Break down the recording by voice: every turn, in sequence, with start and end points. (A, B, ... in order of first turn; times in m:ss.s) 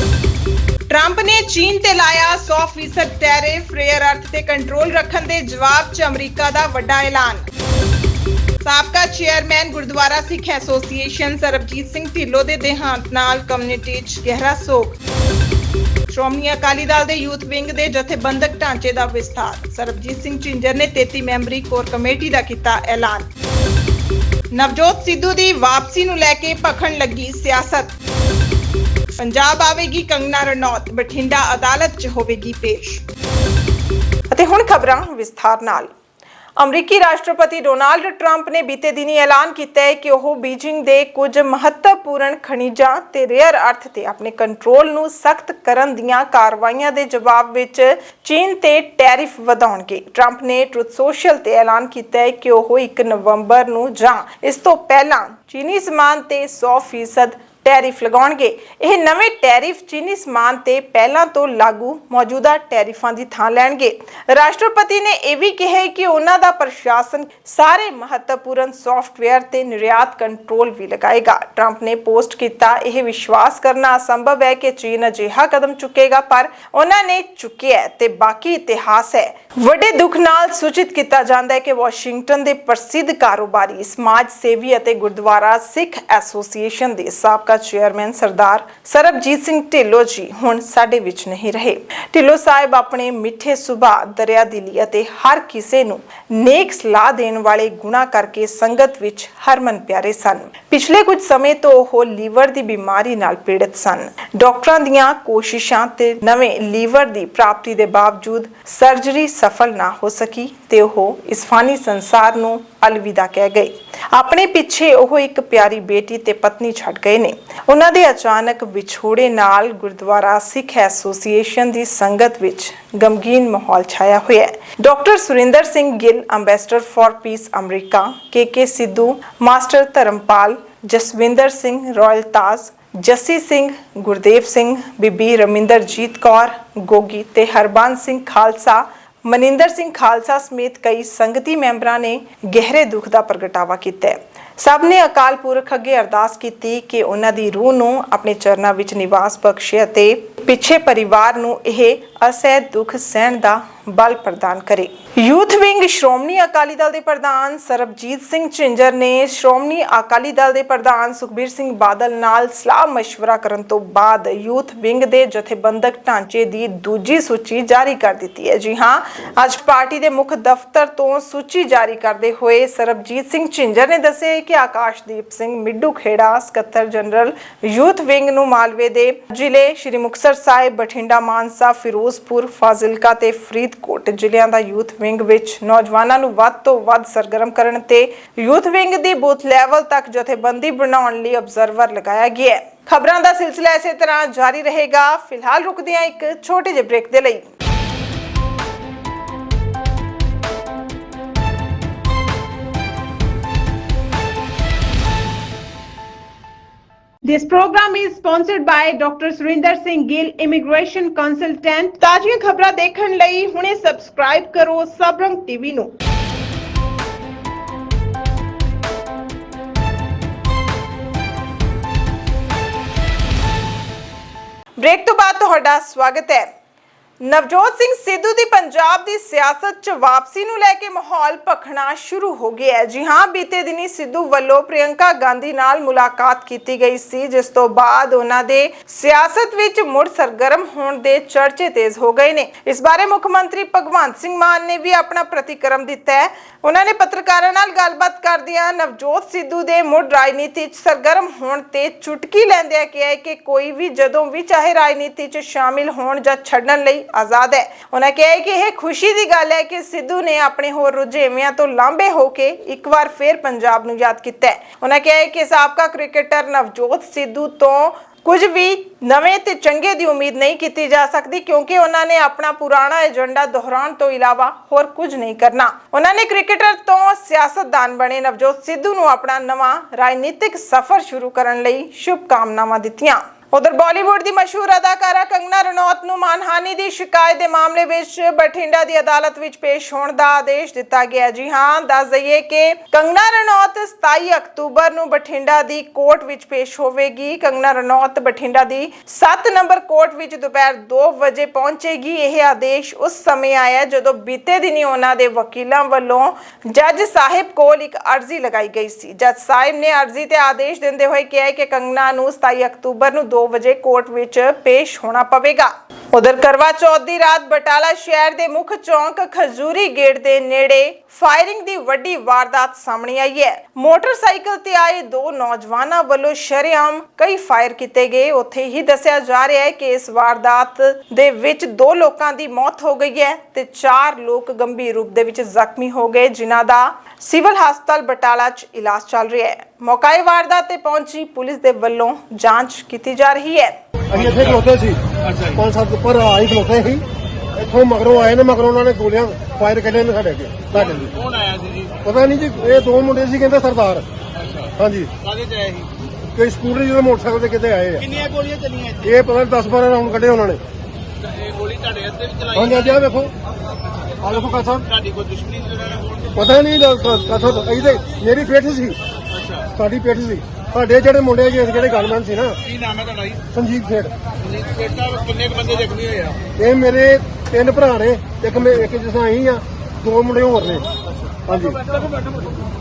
0:00.9-0:07.5 A
0:08.6-0:15.0 A
0:16.1-0:23.3 A
0:24.5-0:27.9 A
0:29.2-0:33.0 A
0:34.3-0:35.9 A
0:36.6-3:17.5 A
3:27.2-3:35.9 A
3:44.8-3:46.5 A
3:47.2-5:43.8 A
5:44.1-5:51.2 B
5:51.0-5:51.9 C
5:52.0-5:54.0 B
5:54.7-5:55.2 B
5:55.3-5:55.9 C
5:56.3-5:58.2 B
5:58.1-5:59.0 C
5:59.0-6:00.6 B
6:01.4-6:02.7 C
6:02.5-6:03.3 B
6:04.2-6:04.9 B
6:05.0-6:06.2 C
6:06.3-6:09.0 B
6:09.6-6:12.6 B
6:12.7-6:13.4 C
6:13.5-6:14.1 B
6:14.4-6:16.4 C
6:16.6-6:20.8 B
6:21.4-6:22.0 B